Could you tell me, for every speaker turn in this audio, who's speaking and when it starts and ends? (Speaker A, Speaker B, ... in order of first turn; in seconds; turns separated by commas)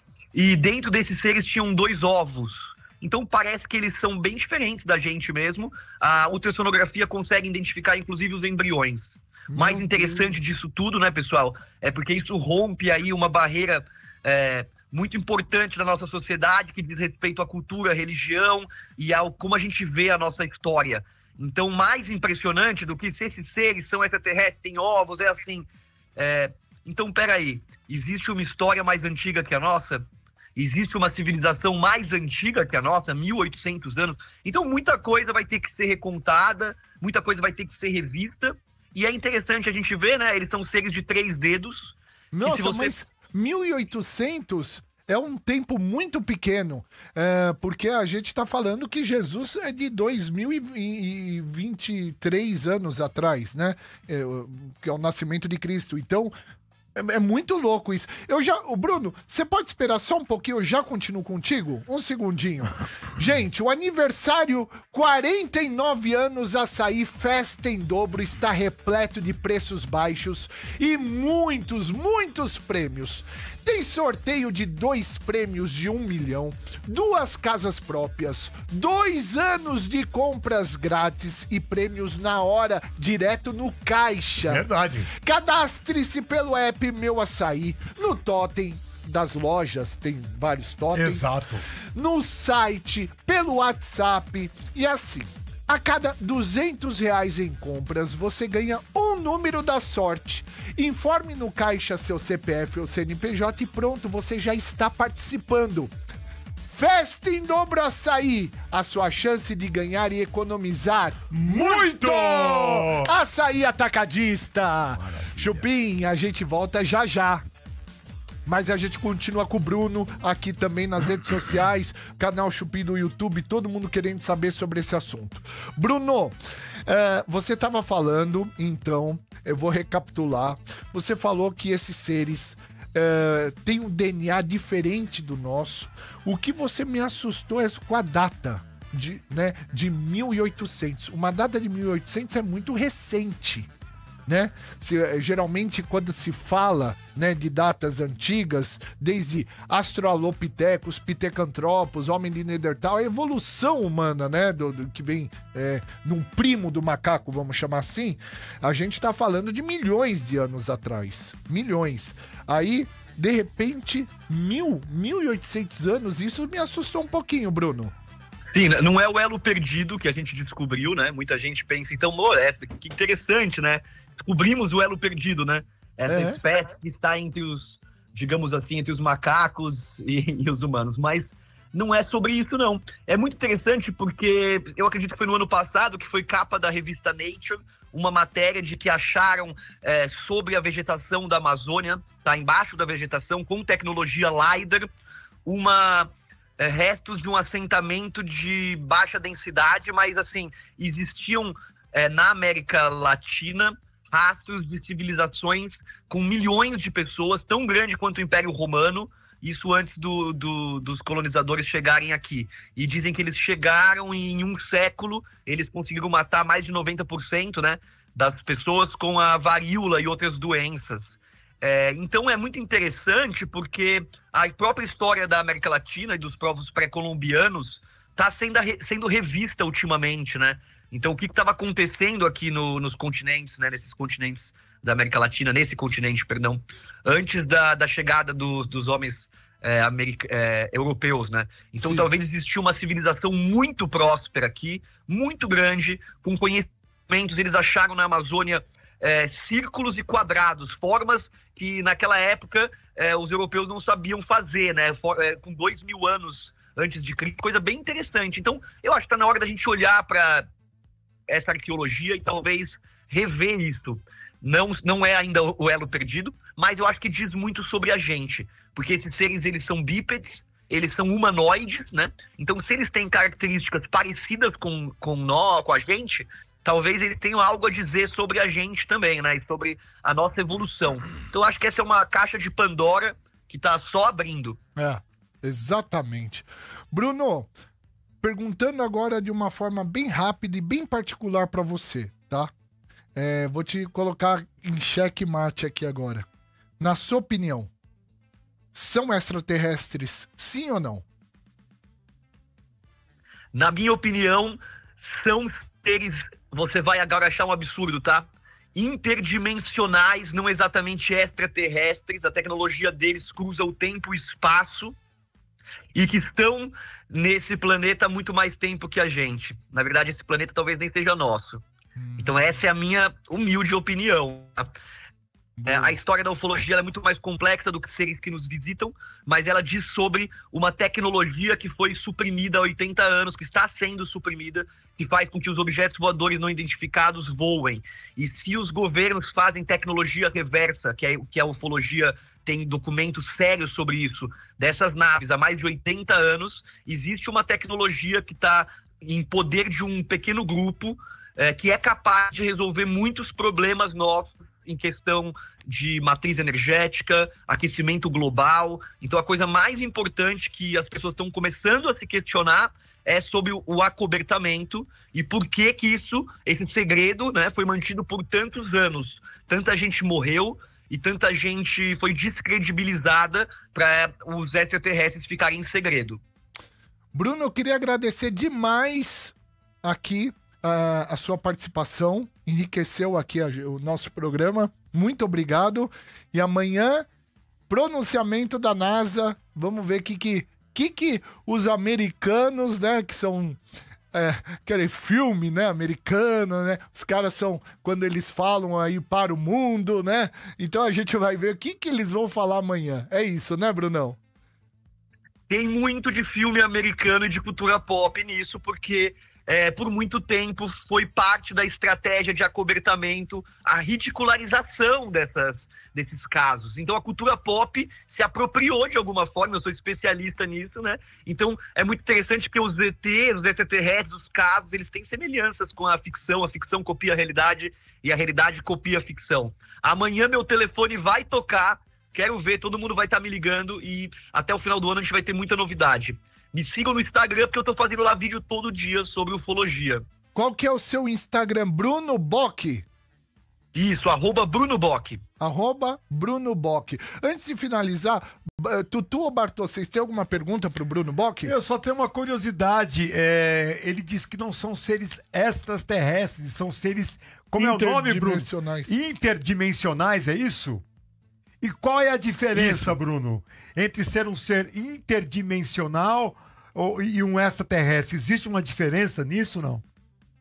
Speaker A: 0.3-30.0, Speaker B: 9.5-10.4, Speaker A: 30.6-43.0, Speaker B: 42.3-56.3, Speaker B: 57.0-91.3, Speaker C: 84.5-85.1, Speaker C: 90.9-91.6, Speaker B: 92.0-105.9, Speaker B: 106.7-117.4, Speaker C: 111.3-113.1, Speaker B: 118.5-126.3, Speaker B: 126.9-143.7, Speaker B: 144.3-167.9, Speaker A: 168.5-194.9, Speaker B: 176.1-176.4, Speaker A: 195.5-260.4, Speaker B: 241.8-242.1, Speaker A: 261.3-284.6, Speaker B: 284.8-287.5, Speaker B: 288.2-292.5, Speaker B: 293.1-296.2, Speaker B: 296.8-297.7, Speaker B: 298.7-301.1, Speaker A: 303.5-315.0, Speaker A: 315.9-321.6, Speaker B: 322.0-322.4, Speaker A: 322.2-324.7, Speaker B: 325.6-325.9, Speaker A: 325.6-376.2, Speaker B: 377.1-387.1, Speaker B: 387.7-393.6, Speaker B: 394.1-404.2, Speaker A: 405.5-440.0, Speaker B: 440.4-442.9, Speaker A: 443.8-445.2, Speaker B: 445.4-451.5, Speaker C: 451.4-460.8, Speaker B: 457.6-458.9, Speaker C: 461.6-469.8, Speaker A: 462.6-463.0